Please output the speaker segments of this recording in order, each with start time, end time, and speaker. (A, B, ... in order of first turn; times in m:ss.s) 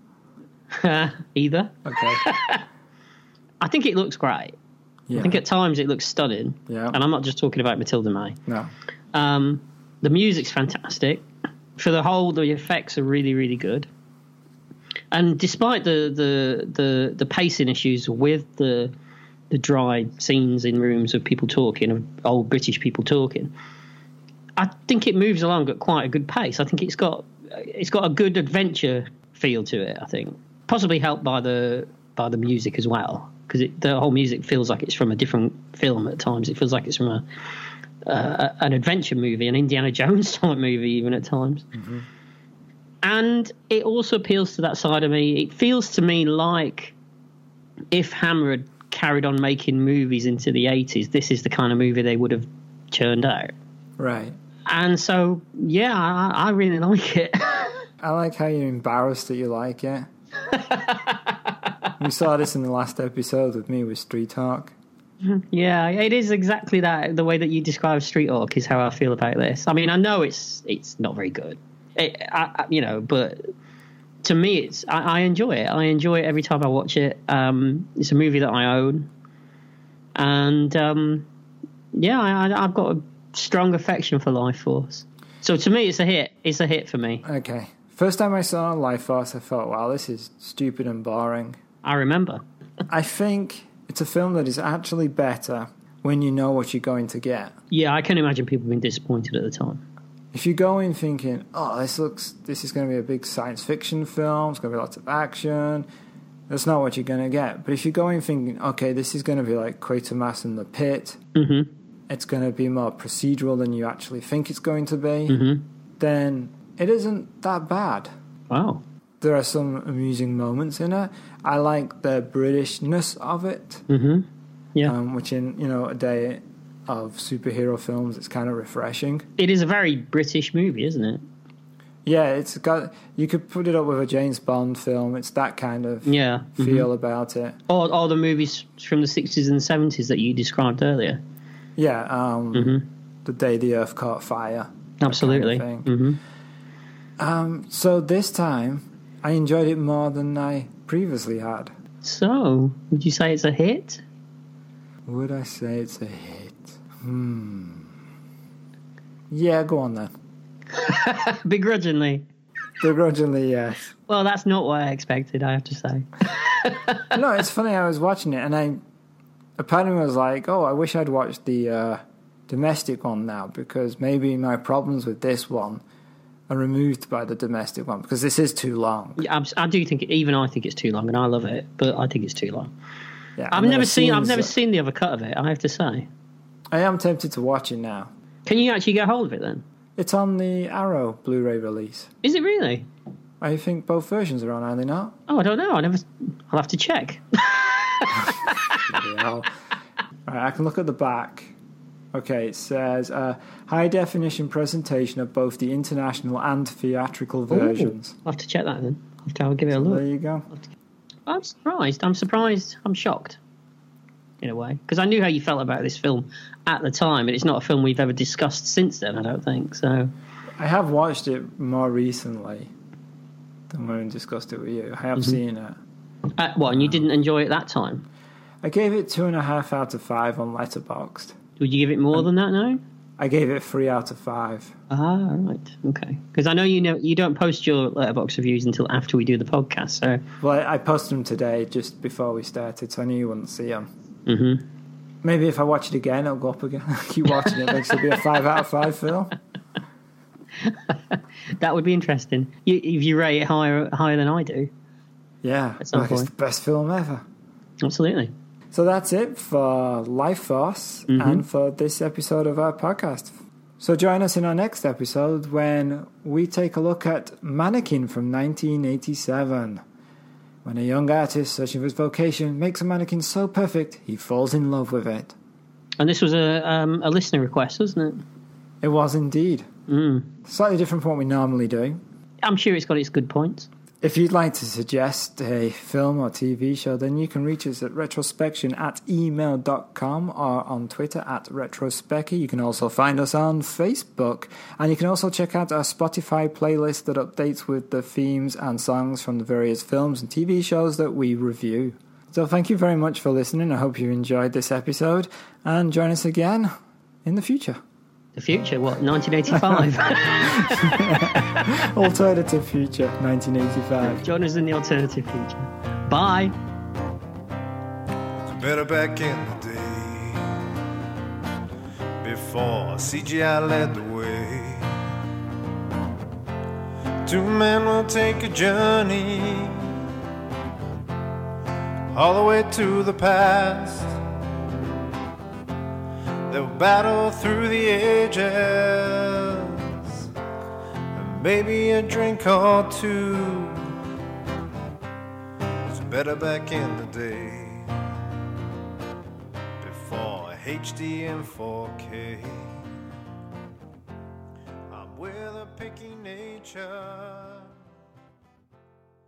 0:00.7-0:02.6 A
0:01.8-0:02.2 B
0:03.6-0:04.6 A
0:05.1-0:05.4 B
0:05.2-0:08.4 A
0:06.7-0:07.0 B
0:09.1-0:11.3 A
0:11.8-0:13.9 A
0:15.1-0:18.9 A
0:19.5-0:23.5 A
0:24.6-0:37.2 A
0:38.0-0:41.7 A
0:41.7-0:42.0 B
0:43.0-0:47.0 A
0:47.9-0:53.5 A
0:54.0-0:54.4 B
0:54.7-0:57.9 A
0:58.0-1:00.1 B
1:00.5-1:01.3 A
1:02.0-1:04.7 B
1:05.2-1:13.5 A
1:14.2-1:19.1 A
1:20.2-1:21.3 A
1:21.9-1:27.2 A
1:27.2-1:31.6 B
1:31.8-1:32.4 A
1:32.9-1:37.6 B
1:37.7-1:39.8 A
1:40.3-1:45.9 B
1:46.5-1:51.2 B
1:51.4-1:51.7 A
1:52.1-1:55.4 B
1:55.3-1:55.6 A
1:56.0-1:58.1 B
1:58.5-1:58.8 A
1:59.2-2:03.8 B
2:03.9-2:05.0 A
2:04.8-2:09.3 B
2:09.4-2:11.2 A
2:12.0-2:17.6 B
2:16.1-2:16.9 A
2:17.7-2:21.2 A
2:21.8-2:26.0 B
2:22.5-2:22.8 A
2:25.0-2:26.2 A
2:27.2-2:31.7 B
2:32.0-2:34.0 A
2:35.1-2:37.9 B
2:39.3-2:40.1 B
2:40.7-2:42.3 A
2:42.8-2:43.9 B
2:44.1-2:47.1 A
2:47.1-2:48.8 B
2:49.6-2:55.8 B
2:56.5-2:59.3 B
2:59.2-3:02.7 A
3:03.4-3:04.5 B
3:03.5-3:06.1 A
3:06.7-3:08.1 B
3:08.5-3:09.6 A
3:10.0-3:12.1 B
3:12.2-3:12.9 A
3:13.4-3:15.2 B
3:15.3-3:18.8 A
3:18.7-3:19.5 B
3:20.3-3:21.5 B
3:22.1-3:28.2 B
3:27.5-3:30.0 A
3:29.7-3:30.5 B
3:31.3-3:33.4 A
3:34.4-3:40.1 A
3:40.6-3:42.7 B
3:43.7-3:45.8 B
3:46.4-3:48.0 A
3:48.6-3:51.4 B
3:51.6-3:52.8 A
3:53.2-3:54.7 B
3:54.9-4:00.2 A
4:00.4-4:03.9 B
4:04.3-4:04.6 A
4:05.2-4:09.4 B
4:10.6-4:14.7 A
4:15.4-4:17.2 B
4:15.8-4:16.3 A
4:17.8-4:18.3 A
4:18.7-4:29.8 B
4:21.1-4:21.4 A
4:30.6-4:35.4 B
4:36.0-4:38.2 A
4:38.8-4:39.7 B
4:39.9-4:40.3 A
4:40.4-4:42.0 B
4:42.4-4:43.7 A
4:44.0-5:06.7 B
5:07.2-5:07.8 B
5:08.4-5:11.2 A
5:09.5-5:14.2 B
5:14.0-5:16.6 A
5:18.5-5:20.6 C
5:22.2-5:25.0 C
5:27.2-5:30.0 C
5:32.1-5:34.2 C
5:36.5-5:40.3 C
5:41.1-5:43.9 C
5:45.8-5:48.0 C
5:49.8-5:52.9 C
5:54.9-5:57.7 C